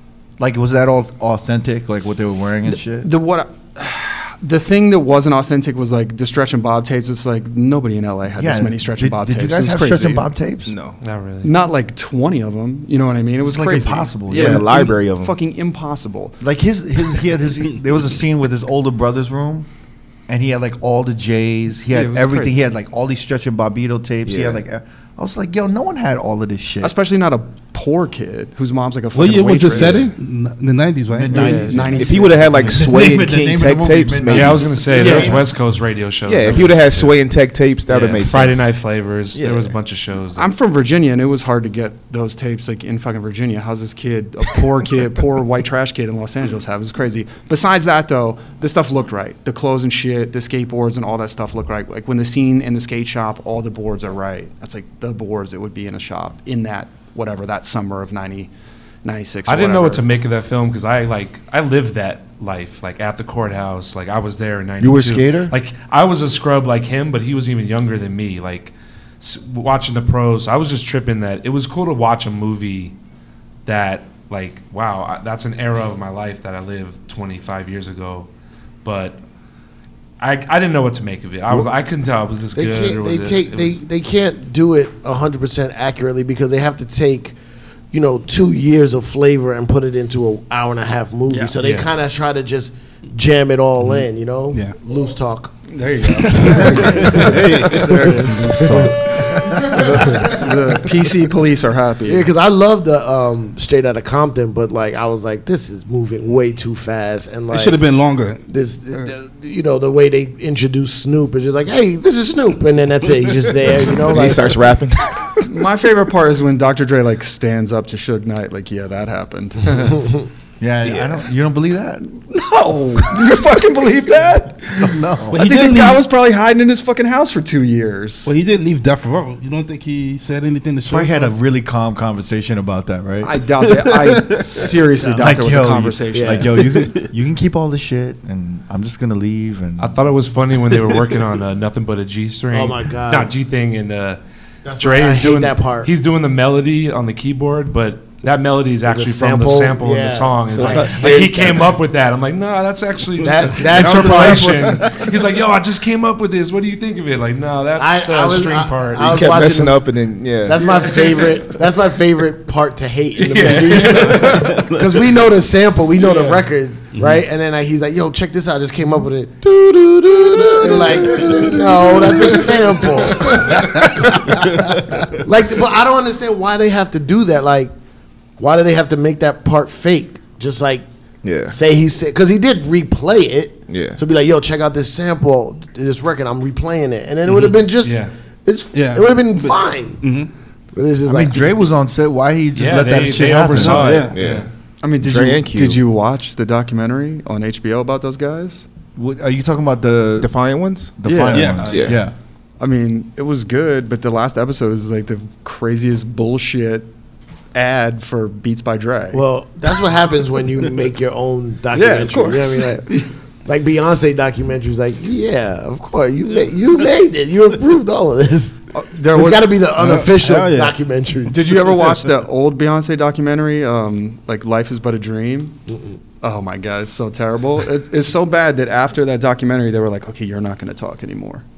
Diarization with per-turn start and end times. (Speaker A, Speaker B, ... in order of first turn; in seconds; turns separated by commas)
Speaker A: 0.4-3.1, Speaker B: 2.7-10.3, Speaker A: 8.3-10.7, Speaker C: 10.7-11.0, Speaker D: 11.0-11.5, Speaker B: 11.4-16.4, Speaker A: 13.4-14.7, Speaker C: 14.3-15.3, Speaker A: 16.4-19.7, Speaker A: 20.3-26.9, Speaker B: 21.9-22.6, Speaker C: 24.2-24.6, Speaker B: 26.8-30.1, Speaker E: 29.1-32.0, Speaker C: 29.8-30.0, Speaker A: 31.1-35.4, Speaker B: 31.3-32.9, Speaker C: 31.9-35.4, Speaker D: 34.3-37.2, Speaker B: 34.9-35.4, Speaker C: 36.2-38.7, Speaker D: 37.9-40.5, Speaker C: 39.3-39.7, Speaker B: 40.4-58.5, Speaker B: 59.0-60.0, Speaker D: 59.5-72.9, Speaker A: 64.8-65.5, Speaker D: 73.7-78.3, Speaker D: 78.8-79.2, Speaker D: 80.2-83.8, Speaker F: 82.5-87.3, Speaker F: 87.9-95.5, Speaker D: 91.6-91.9, Speaker E: 93.8-94.7, Speaker B: 95.7-98.3, Speaker E: 96.2-98.7, Speaker F: 96.3-99.0, Speaker A: 98.3-100.2, Speaker B: 99.3-102.3, Speaker F: 99.5-100.5, Speaker F: 102.0-107.8, Speaker E: 107.5-109.1, Speaker F: 108.5-114.6, Speaker C: 113.9-115.5, Speaker B: 115.5-120.0, Speaker D: 119.7-120.0, Speaker A: 120.6-122.2, Speaker C: 120.8-121.2, Speaker B: 122.3-128.3, Speaker A: 124.7-125.4, Speaker E: 125.3-126.0, Speaker E: 128.2-131.3, Speaker A: 130.9-140.0, Speaker B: 133.2-136.7, Speaker F: 135.0-135.3, Speaker F: 136.1-136.5, Speaker D: 139.8-144.2, Speaker F: 142.5-143.3, Speaker F: 144.7-145.9, Speaker D: 144.8-159.4, Speaker F: 148.8-151.3, Speaker C: 150.5-151.7, Speaker F: 153.2-154.8, Speaker E: 153.2-154.7, Speaker F: 157.8-177.7, Speaker C: 159.0-160.9, Speaker D: 160.6-161.5, Speaker D: 163.2-164.6, Speaker E: 163.8-164.8, Speaker D: 166.0-166.4, Speaker E: 166.9-167.2, Speaker D: 173.2-173.9, Speaker E: 174.5-174.7, Speaker F: 178.4-180.8, Speaker C: 181.2-181.6, Speaker F: 181.4-190.0, Speaker C: 183.7-184.0, Speaker D: 187.8-188.1, Speaker E: 188.7-190.3, Speaker F: 190.7-191.6, Speaker A: 191.1-194.0, Speaker D: 192.5-194.5, Speaker E: 193.5-194.2, Speaker C: 193.8-194.5, Speaker B: 194.8-198.7, Speaker C: 195.0-195.8, Speaker A: 198.9-200.3, Speaker C: 200.2-200.9, Speaker A: 200.9-202.1, Speaker B: 201.0-201.8, Speaker E: 201.3-201.7, Speaker D: 201.6-202.0, Speaker C: 201.6-202.0, Speaker B: 202.6-206.9, Speaker B: 207.5-209.2, Speaker F: 209.1-218.6, Speaker B: 211.7-213.1, Speaker B: 218.7-219.6, Speaker F: 219.1-221.5, Speaker E: 219.8-220.8, Speaker B: 221.3-225.6, Speaker B: 226.2-231.4